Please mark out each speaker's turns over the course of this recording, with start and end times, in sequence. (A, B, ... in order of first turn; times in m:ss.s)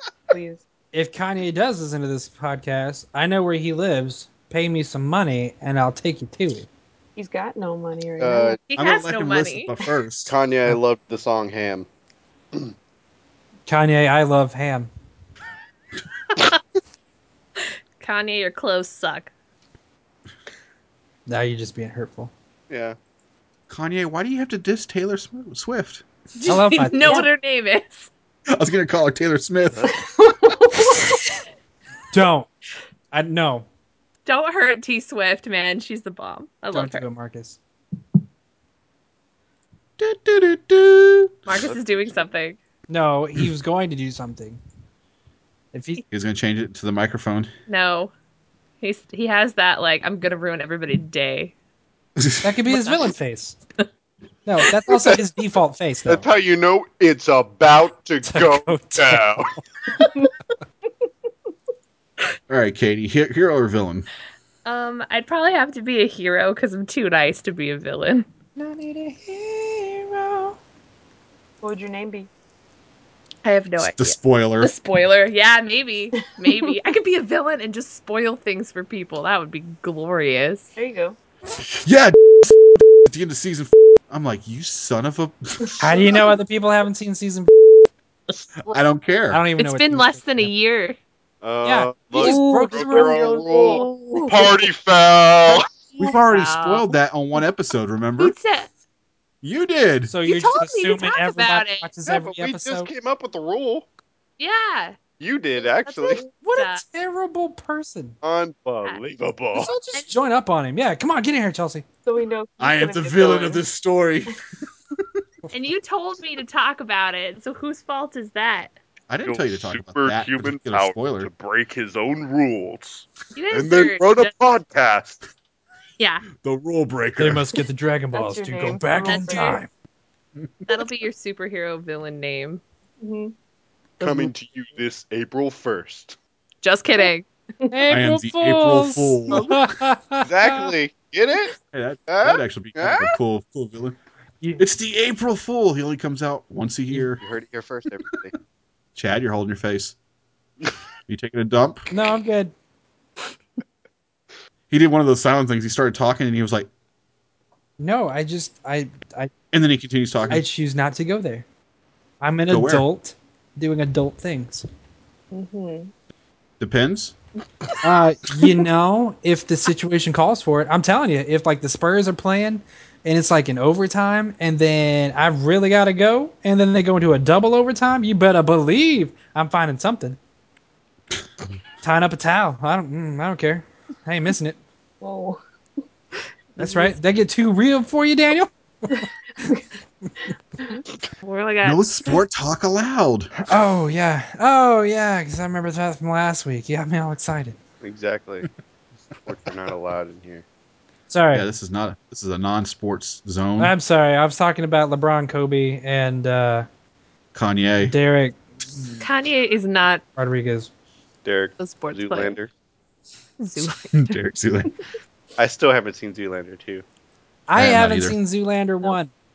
0:00.3-0:00.6 A
0:00.9-0:06.7 B
0:07.2-0:08.6 A
0:08.2-0:08.6 C
0:08.7-0:09.7 D
0:08.8-0:10.4 E
0:10.3-0:11.9 C
0:13.7-0:14.9 B
0:18.0-0:19.3 D
0:21.3-0:22.3 B
0:22.7-0:23.0 C
0:23.7-0:26.0 E
0:26.4-0:28.1 D
0:26.5-0:27.3 B
0:28.5-0:29.9 E
0:30.2-0:30.9 A
0:32.1-0:32.5 B
0:33.1-0:33.7 B
0:34.3-0:37.0 D
0:36.7-0:37.6 B
0:40.0-0:41.3 E
0:41.5-0:42.6 D
0:42.9-0:44.6 B
0:45.7-0:46.0 B
0:46.1-0:47.5 E
0:47.7-0:48.1 D
0:48.8-0:51.5 D
0:52.2-0:52.5 E
0:52.4-0:53.6 B
0:52.7-0:53.0 D
0:54.5-0:56.2 B
0:56.1-0:59.5 C
0:58.2-0:59.6 B
1:00.0-1:00.3 A
1:02.5-1:04.1 E
1:04.6-1:08.3 D
1:08.6-1:10.6 B
1:11.6-1:12.3 A
1:13.4-1:20.7 D
1:13.8-1:14.7 E
1:20.8-1:21.2 A
1:21.7-1:22.5 E
1:23.0-1:26.1 E
1:25.6-1:26.3 A
1:25.8-1:27.5 B
1:28.7-1:29.4 E
1:29.3-1:30.5 B
1:29.6-1:31.0 D
1:31.4-1:35.7 C
1:31.6-1:33.4 B
1:32.2-1:34.5 A
1:33.7-1:34.4 D
1:36.0-1:37.0 D
1:36.0-1:38.4 E
1:38.2-1:38.7 D
1:39.4-1:40.1 E
1:40.1-1:42.9 B
1:40.2-1:41.9 D
1:42.1-1:43.9 C
1:44.4-1:45.0 D
1:45.2-1:46.2 C
1:45.9-1:46.8 D
1:46.3-1:48.2 B
1:48.2-1:49.7 C
1:49.6-1:51.8 B
1:52.1-1:53.6 A
1:52.6-1:54.4 E
1:55.5-1:58.7 D
1:59.1-2:01.3 E
1:59.2-2:05.2 C
2:03.4-2:04.3 D
2:06.0-2:06.3 D
2:06.4-2:07.5 E
2:07.2-2:09.7 B
2:08.1-2:09.6 A
2:09.1-2:09.6 D
2:10.7-2:12.6 D
2:13.0-2:13.3 A
2:14.0-2:16.2 C
2:16.6-2:17.3 D
2:17.7-2:20.7 B
2:17.9-2:19.7 E
2:20.2-2:21.6 C
2:21.7-2:24.0 E
2:22.1-2:23.2 C
2:24.6-2:27.2 E
2:27.0-2:28.3 C
2:29.0-2:30.0 E
2:31.1-2:31.9 E
2:31.9-2:32.5 B
2:34.7-2:36.7 E
2:37.8-2:39.3 B
2:39.5-2:40.4 E
2:40.3-2:41.4 B
2:42.2-2:44.6 B
2:42.5-2:42.9 E
2:45.3-2:45.9 A
2:46.6-2:47.2 E
2:47.8-3:00.2 B
3:01.8-3:04.6 B
3:05.0-3:05.4 A
3:06.6-3:06.9 D
3:06.6-3:10.1 B
3:11.2-3:12.2 D
3:11.6-3:13.3 E
3:13.4-3:17.6 B
3:17.8-3:18.5 C
3:19.2-3:20.4 C
3:21.1-3:21.4 B
3:21.3-3:23.8 E
3:23.6-3:26.7 B
3:27.3-3:28.0 E
3:27.8-3:29.0 B
3:29.0-3:30.0 D
3:30.2-3:30.7 B
3:31.2-3:32.5 C
3:31.6-3:32.4 D
3:33.4-3:34.2 D
3:33.9-3:34.7 E
3:35.4-3:36.8 C
3:37.5-3:39.1 B
3:37.6-3:38.2 E